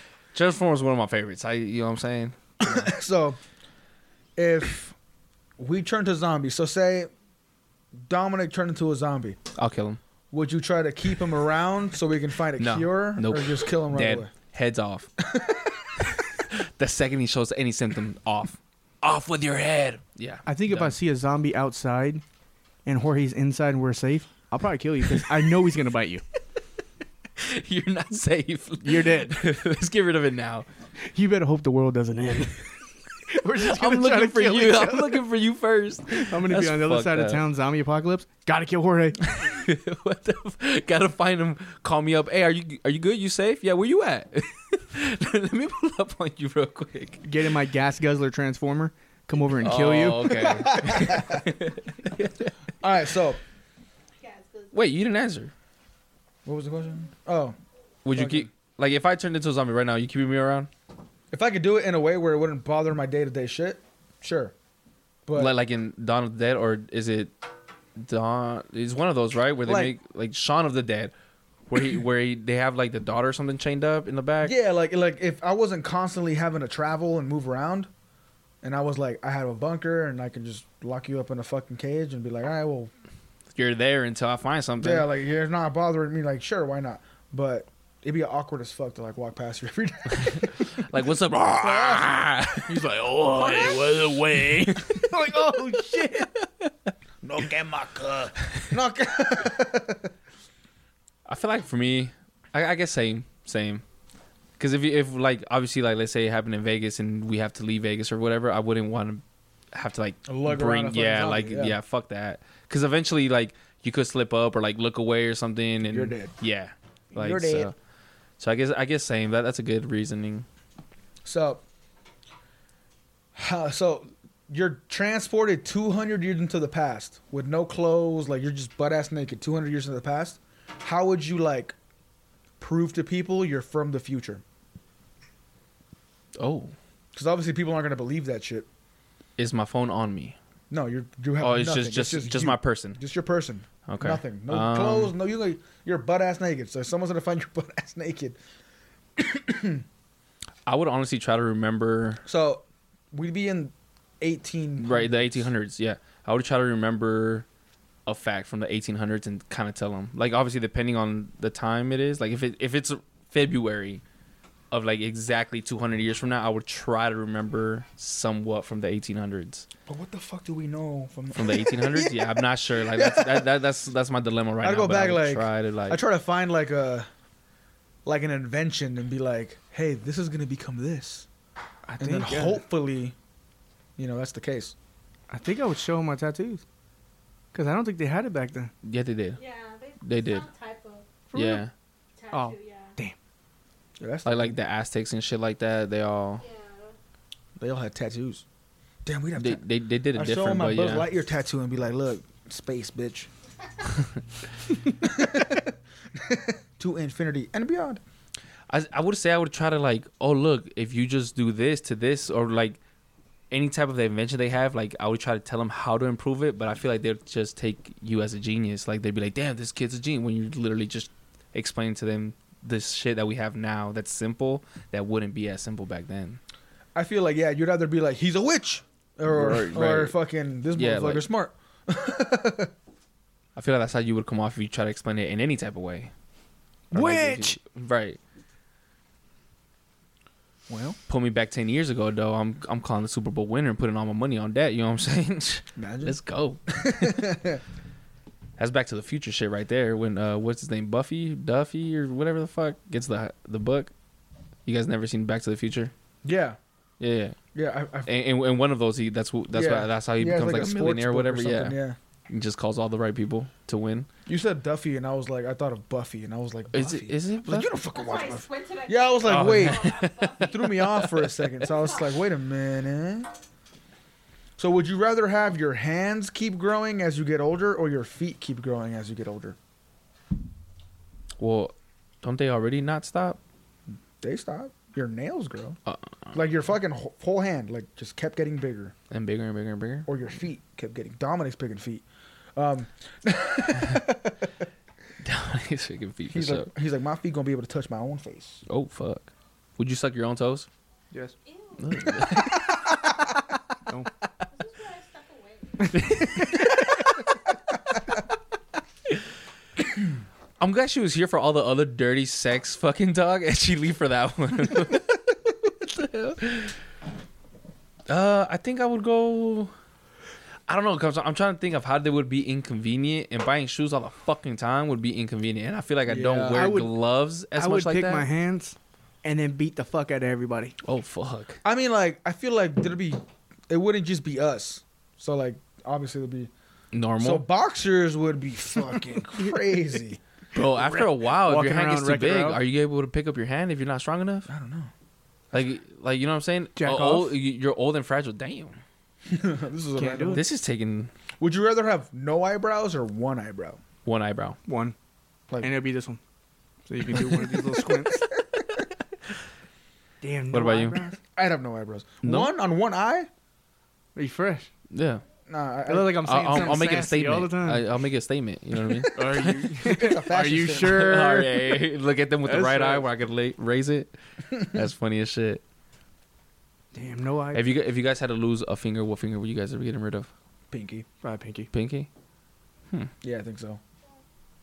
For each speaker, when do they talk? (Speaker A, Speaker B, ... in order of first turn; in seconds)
Speaker A: 0.3-2.9, 9.6-10.0, 12.6-15.1, 16.1-20.9, 27.4-30.7, 33.6-37.4, 39.3-47.2, 49.6-52.6, 54.7-55.5, 58.0-60.7, 65.3-67.3, 68.0-71.1, 71.7-74.5, 83.5-85.1, 90.2-92.8, 94.7-95.0, 101.2-103.8, 104.6-117.7, 118.4-120.5, 136.3-136.7, 139.4-140.4, 141.4-143.0, 143.9-145.1, 150.7-152.2, 154.8-157.4, 158.1-164.0, 164.7-169.7, 171.3-176.0, 188.8-189.4, 190.0-190.5, 191.3-191.7, 194.2-196.4, 199.4-201.1, 208.7-212.8, 213.5-226.4, 229.2-230.2, 230.7-231.2, 233.6-236.1, 236.9-238.2, 241.1-247.2, 248.6-253.9, 254.7-255.9, 257.0-257.4, 258.1-261.8, 262.3-264.1, 266.7-267.7, 269.2-271.4, 281.4-283.4, 285.9-286.3, 289.1-290.1, 295.2-296.7, 298.7-300.7, 301.8-302.8, 305.9-307.1, 310.6-316.8, 318.1-319.7, 320.7-328.3, 330.8-331.6, 336.9-337.5, 340.5-344.5, 345.5-348.8, 350.3-351.1, 354.0-354.6, 360.5-361.1, 362.2-362.5, 364.9-365.2, 366.2-369.7, 370.7-375.6, 377.5-380.3, 381.7-382.1
Speaker B: 2.6-3.4, 4.3-4.9, 5.6-7.1, 8.0-9.4, 10.3-14.3, 15.2-15.7, 50.5-51.4, 52.8-53.4, 56.4-57.6, 58.1-58.5, 61.3-64.5, 65.2-65.5, 69.7-69.9, 74.4-77.9, 78.6-82.9, 84.8-90.5, 91.6-92.0, 97.2-100.1, 110.2-111.8, 115.9-116.3, 117.1-117.7, 121.2-121.6, 123.3-131.7, 132.6-134.4, 137.1-138.7, 140.7-148.4, 149.2-149.8, 152.2-155.5, 169.9-173.5, 174.6-177.1, 178.0-181.2, 182.0-183.1, 184.0-184.7, 194.0-194.5, 197.6-198.4, 199.0-203.3, 205.0-208.0, 226.9-232.7, 240.7-241.0, 245.7-246.2, 246.7-247.6, 256.2-256.6, 257.5-258.1, 259.5-262.0, 264.2-273.3, 274.6-279.6, 284.2-285.8, 286.3-288.9, 290.1-292.0, 292.6-294.5, 296.3-298.6, 326.1-326.8, 331.6-336.5, 337.2-340.2, 344.5-344.9, 349.3-350.4, 351.4-353.8, 361.3-363.3, 365.5-366.3, 369.8-371.1, 380.7-381.1, 383.2-383.8
Speaker C: 20.4-22.2, 22.8-26.2, 28.8-29.5, 31.0-32.7, 33.3-35.2, 36.1-39.4, 47.2-50.7, 92.7-96.3, 181.8-182.6, 185.3-186.6, 187.5-188.7, 191.3-191.6, 192.3-193.1, 236.9-237.6, 326.5-326.9, 327.5-330.8, 340.5-342.6, 346.8-347.4, 349.9-350.4, 354.6-354.9, 355.6-356.2, 356.9-358.3, 360.2-361.2, 364.1-364.7, 365.9-367.9, 369.0-371.8, 372.4-373.1, 376.9-377.8, 381.2-381.7
Speaker D: 54.2-54.8, 93.4-93.8, 189.4-191.1, 192.2-192.9, 196.4-196.9, 267.9-270.9, 271.6-272.2, 301.4-302.4, 304.5-306.2